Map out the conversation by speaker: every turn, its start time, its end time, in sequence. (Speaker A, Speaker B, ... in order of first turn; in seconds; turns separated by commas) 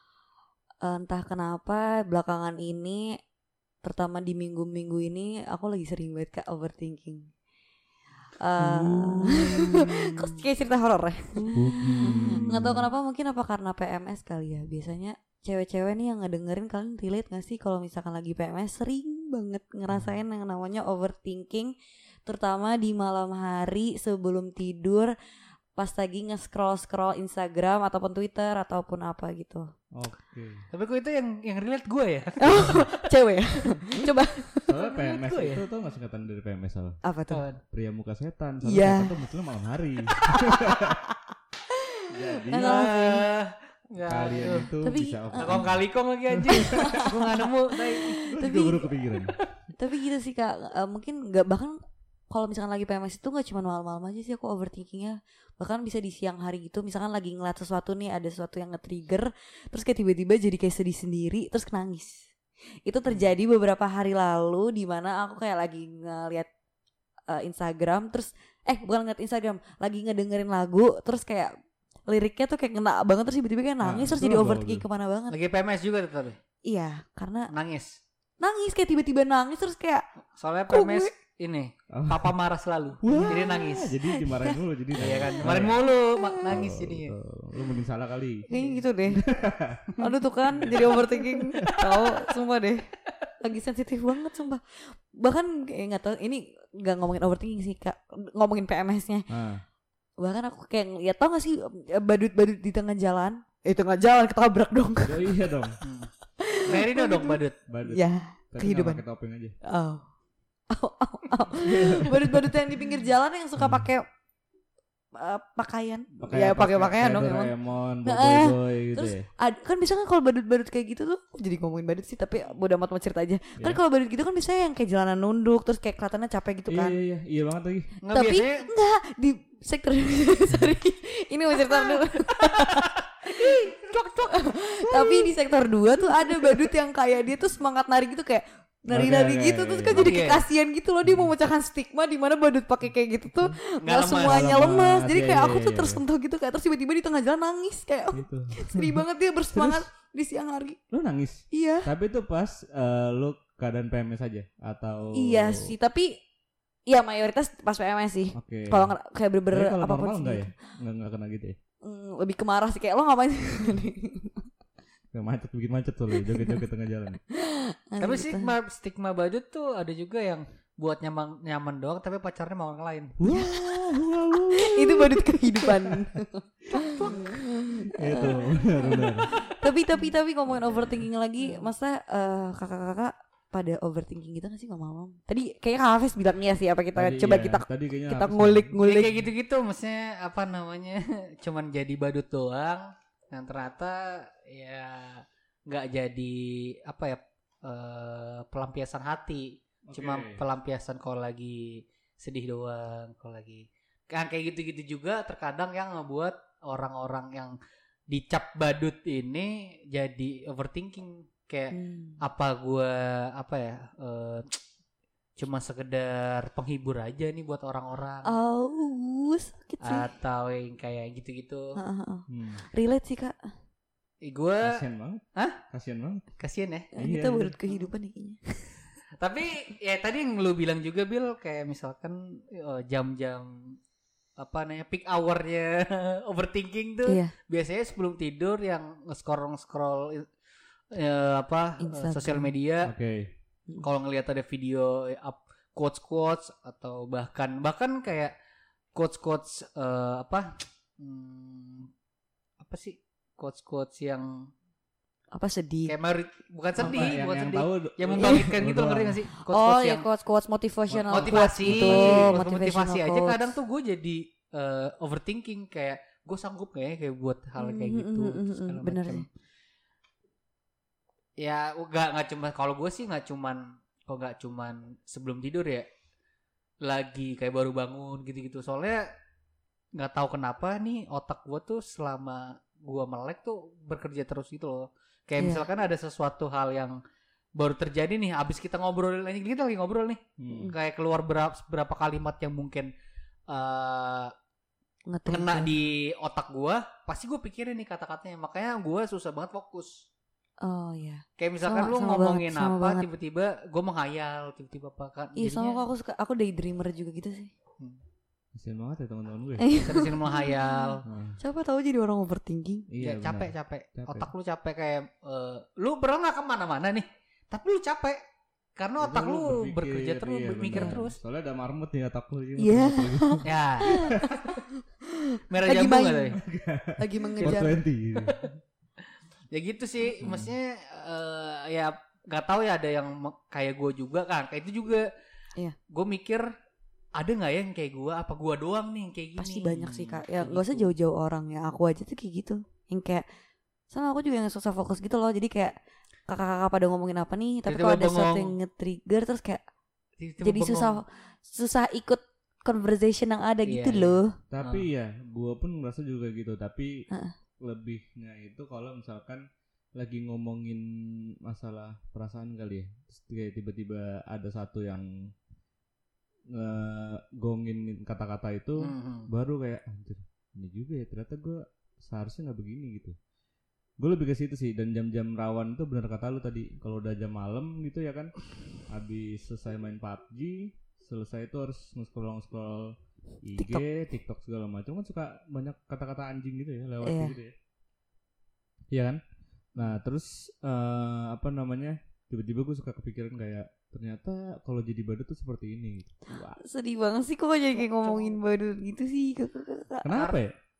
Speaker A: 0.8-3.2, Speaker A: 3.8-7.3, Speaker A: 8.4-21.7, Speaker B: 8.6-10.2, Speaker B: 11.5-12.8, Speaker A: 22.2-25.1, Speaker A: 25.8-29.7, Speaker B: 29.9-30.7, Speaker C: 30.7-33.0, Speaker A: 32.4-34.6, Speaker B: 34.0-37.0, Speaker C: 34.8-35.6, Speaker A: 37.0-37.4, Speaker C: 37.3-37.6, Speaker B: 37.7-41.0, Speaker A: 38.6-39.1, Speaker C: 40.3-40.7, Speaker A: 42.0-43.2, Speaker B: 42.1-42.9, Speaker C: 42.5-44.7, Speaker B: 44.0-47.1, Speaker A: 44.8-45.6, Speaker C: 45.4-48.2, Speaker A: 46.4-48.9, Speaker B: 48.1-49.4, Speaker A: 49.8-51.8, Speaker A: 52.3-62.3, Speaker A: 62.9-66.5, Speaker A: 67.3-71.5, Speaker A: 72.1-75.3, Speaker B: 73.8-74.8, Speaker C: 75.3-76.4, Speaker A: 76.7-77.5, Speaker C: 77.5-78.0, Speaker A: 78.4-80.0, Speaker C: 80.4-84.0, Speaker A: 80.7-81.1, Speaker B: 81.9-82.3, Speaker B: 83.0-85.8, Speaker A: 83.1-83.4, Speaker A: 84.1-84.6, Speaker C: 85.0-87.1, Speaker A: 86.1-86.5, Speaker B: 86.5-89.9, Speaker A: 88.5-89.2, Speaker A: 90.0-92.9, Speaker B: 90.6-91.1, Speaker C: 90.6-90.9, Speaker C: 91.7-92.1, Speaker A: 93.4-99.3, Speaker B: 99.3-99.6, Speaker A: 100.2-105.4, Speaker B: 105.0-105.8, Speaker C: 105.8-106.1, Speaker A: 106.4-109.0, Speaker C: 106.7-107.6, Speaker B: 107.7-109.5, Speaker A: 109.6-110.0, Speaker A: 110.7-114.0, Speaker B: 111.6-112.8, Speaker B: 113.6-113.8, Speaker A: 115.1-117.5, Speaker B: 116.2-119.3, Speaker A: 118.0-126.9, Speaker B: 126.7-128.0, Speaker C: 128.0-128.7, Speaker A: 128.1-150.8, Speaker C: 131.7-135.3, Speaker B: 138.9-140.1, Speaker C: 139.9-140.4, Speaker B: 143.3-143.6, Speaker C: 143.8-144.6, Speaker B: 144.2-146.0, Speaker B: 148.1-149.8, Speaker B: 150.9-155.7, Speaker A: 151.5-151.9, Speaker A: 155.1-156.2, Speaker A: 156.9-160.5, Speaker B: 158.3-158.9, Speaker B: 159.5-161.6, Speaker A: 161.8-164.4, Speaker B: 165.1-167.2, Speaker A: 166.2-166.6, Speaker A: 167.3-168.5, Speaker C: 168.0-173.1, Speaker B: 173.2-175.9, Speaker A: 173.3-189.2, Speaker C: 176.7-177.4, Speaker B: 177.9-179.3, Speaker B: 186.9-188.8, Speaker C: 188.8-207.6, Speaker B: 199.9-200.4, Speaker C: 208.1-214.6, Speaker A: 211.7-212.2, Speaker C: 215.4-218.3, Speaker A: 218.2-220.1, Speaker C: 219.8-221.8, Speaker A: 221.8-223.4, Speaker B: 222.3-222.6, Speaker C: 224.2-224.8, Speaker B: 224.6-226.2, Speaker C: 226.4-226.9, Speaker A: 226.9-228.8, Speaker B: 227.0-227.6, Speaker C: 229.2-233.8, Speaker C: 234.4-240.3, Speaker A: 237.1-237.3, Speaker C: 240.9-242.9, Speaker A: 241.8-242.5, Speaker B: 242.8-243.3, Speaker C: 243.8-248.3, Speaker C: 248.9-251.9, Speaker C: 252.6-254.5, Speaker A: 255.3-255.9, Speaker C: 255.9-260.0, Speaker B: 256.8-259.2, Speaker A: 259.4-263.5, Speaker B: 260.9-262.4, Speaker C: 261.1-269.2, Speaker A: 267.6-269.2, Speaker C: 271.4-275.9, Speaker C: 276.8-279.1, Speaker C: 279.9-286.9, Speaker A: 285.4-285.6, Speaker C: 287.6-292.9, Speaker B: 290.4-290.7, Speaker C: 293.5-294.3, Speaker A: 295.1-295.7, Speaker C: 295.3-299.9, Speaker A: 300.6-303.1, Speaker C: 301.4-305.8, Speaker A: 305.4-307.5, Speaker B: 308.5-309.7, Speaker A: 309.6-312.9, Speaker C: 309.8-311.0, Speaker B: 311.0-311.4, Speaker B: 312.9-314.3, Speaker C: 313.0-318.2, Speaker C: 318.8-321.2, Speaker B: 319.0-324.3, Speaker A: 320.7-321.0, Speaker A: 322.6-324.4, Speaker C: 323.4-324.6, Speaker A: 325.3-326.3, Speaker C: 325.5-326.4, Speaker B: 326.4-328.4, Speaker A: 327.0-327.7, Speaker C: 327.4-328.5, Speaker C: 329.5-335.1, Speaker B: 330.2-330.5, Speaker C: 335.9-336.5, Speaker C: 337.1-340.9, Speaker A: 339.4-343.2, Speaker A: 343.9-345.7, Speaker A: 346.3-349.6, Speaker C: 347.7-348.5, Speaker C: 350.2-351.0, Speaker A: 350.4-354.4, Speaker C: 353.7-354.8, Speaker B: 354.5-357.1, Speaker B: 357.6-359.4, Speaker B: 359.9-365.3, Speaker B: 366.5-373.2, Speaker C: 368.8-369.3, Speaker B: 374.0-378.3, Speaker B: 378.9-387.6, Speaker A: 383.6-383.8, Speaker A: 387.0-387.3, Speaker B: 388.9-389.2, Speaker B: 389.7-396.6, Speaker A: 396.6-400.1, Speaker C: 397.8-398.4, Speaker B: 400.0-400.5, Speaker C: 400.1-400.4